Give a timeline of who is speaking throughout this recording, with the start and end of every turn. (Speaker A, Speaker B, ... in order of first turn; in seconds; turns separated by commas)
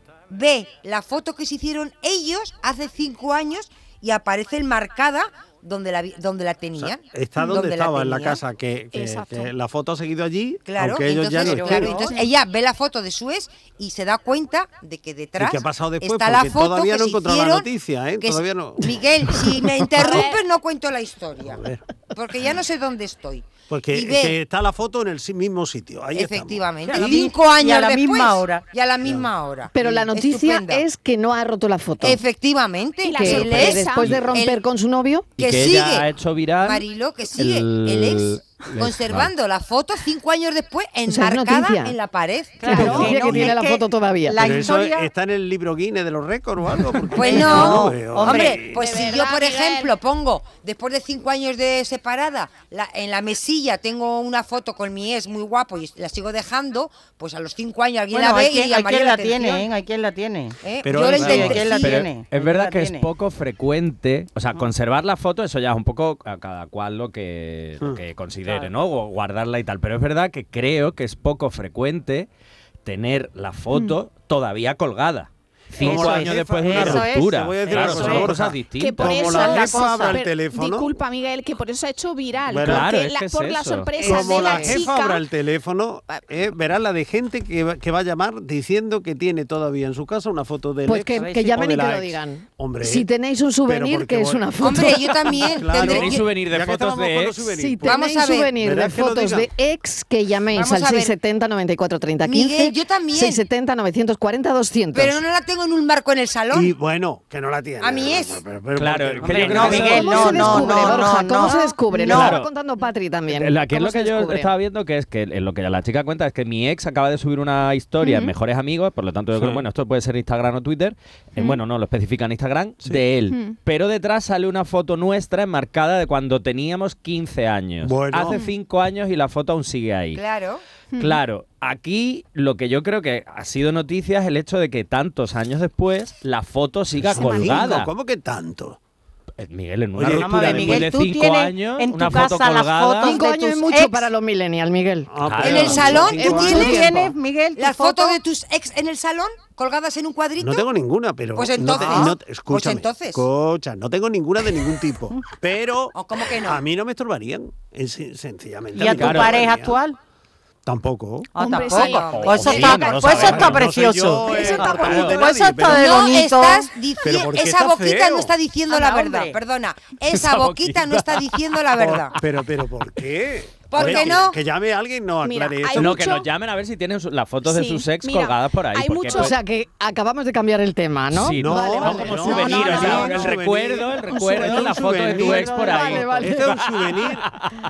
Speaker A: 0.3-8.4, Speaker B: 6.8-12.0, Speaker C: 8.9-9.5, Speaker A: 10.7-17.7, Speaker D: 11.5-11.9, Speaker B: 15.4-20.2, Speaker A: 18.2-24.4, Speaker C: 20.0-20.4, Speaker B: 21.4-21.8, Speaker B: 23.7-27.2, Speaker A: 26.1-30.9, Speaker D: 26.9-28.7, Speaker B: 29.0-29.3, Speaker E: 29.7-32.2, Speaker A: 32.0-34.6, Speaker C: 33.0-34.2, Speaker E: 33.2-35.3, Speaker A: 35.4-36.1, Speaker F: 35.4-36.8, Speaker A: 36.6-43.3, Speaker F: 37.4-39.3, Speaker E: 41.1-42.0, Speaker D: 42.6-45.1, Speaker E: 42.6-44.5, Speaker B: 42.7-43.5, Speaker B: 44.4-49.0, Speaker A: 47.2-59.7, Speaker D: 47.2-48.6, Speaker C: 48.7-49.9, Speaker D: 58.1-63.1, Speaker A: 60.6-62.0, Speaker B: 60.8-61.8, Speaker F: 61.2-72.3, Speaker F: 72.8-79.7, Speaker D: 75.8-78.3, Speaker B: 75.8-80.9, Speaker C: 78.8-85.2, Speaker D: 79.3-80.2, Speaker B: 82.5-82.9, Speaker F: 82.6-83.9, Speaker E: 84.0-84.8, Speaker B: 84.0-93.1, Speaker E: 90.9-95.1, Speaker D: 91.2-91.6, Speaker B: 93.7-98.0, Speaker A: 94.6-96.2, Speaker F: 95.7-97.5, Speaker E: 97.5-105.2, Speaker A: 97.8-98.5, Speaker B: 98.6-99.5, Speaker A: 100.5-101.2, Speaker A: 102.2-103.4, Speaker A: 104.9-106.7, Speaker B: 106.5-111.1, Speaker A: 107.8-108.4, Speaker F: 108.8-111.0, Speaker D: 109.2-112.4, Speaker E: 109.8-114.5, Speaker F: 112.0-112.5, Speaker F: 113.3-130.2, Speaker C: 118.0-118.3, Speaker B: 119.3-119.6, Speaker C: 123.3-123.6, Speaker B: 127.8-128.4, Speaker A: 130.1-130.6, Speaker C: 130.9-131.2, Speaker F: 131.0-137.9, Speaker B: 137.0-138.8, Speaker F: 139.4-143.2, Speaker B: 140.0-140.9, Speaker D: 140.1-144.1, Speaker E: 143.0-147.1, Speaker B: 145.1-146.9, Speaker F: 145.2-146.1, Speaker A: 145.4-146.9, Speaker D: 146.3-148.2, Speaker A: 147.6-150.7, Speaker B: 150.4-159.8, Speaker A: 151.3-153.3, Speaker A: 155.9-156.6, Speaker D: 158.8-160.0, Speaker F: 158.8-159.4, Speaker B: 160.7-161.3, Speaker D: 161.3-166.7, Speaker C: 161.4-162.0, Speaker A: 161.5-163.5, Speaker F: 162.1-163.7, Speaker B: 162.9-166.2, Speaker F: 164.6-165.3, Speaker A: 165.7-172.2, Speaker B: 167.0-168.3, Speaker D: 168.7-169.4, Speaker F: 170.1-171.2, Speaker B: 171.8-176.2, Speaker A: 173.7-174.4, Speaker C: 175.2-176.3, Speaker F: 175.8-179.3, Speaker C: 177.4-179.4, Speaker E: 179.1-182.8, Speaker F: 181.1-187.4, Speaker B: 181.3-187.3, Speaker E: 184.3-186.5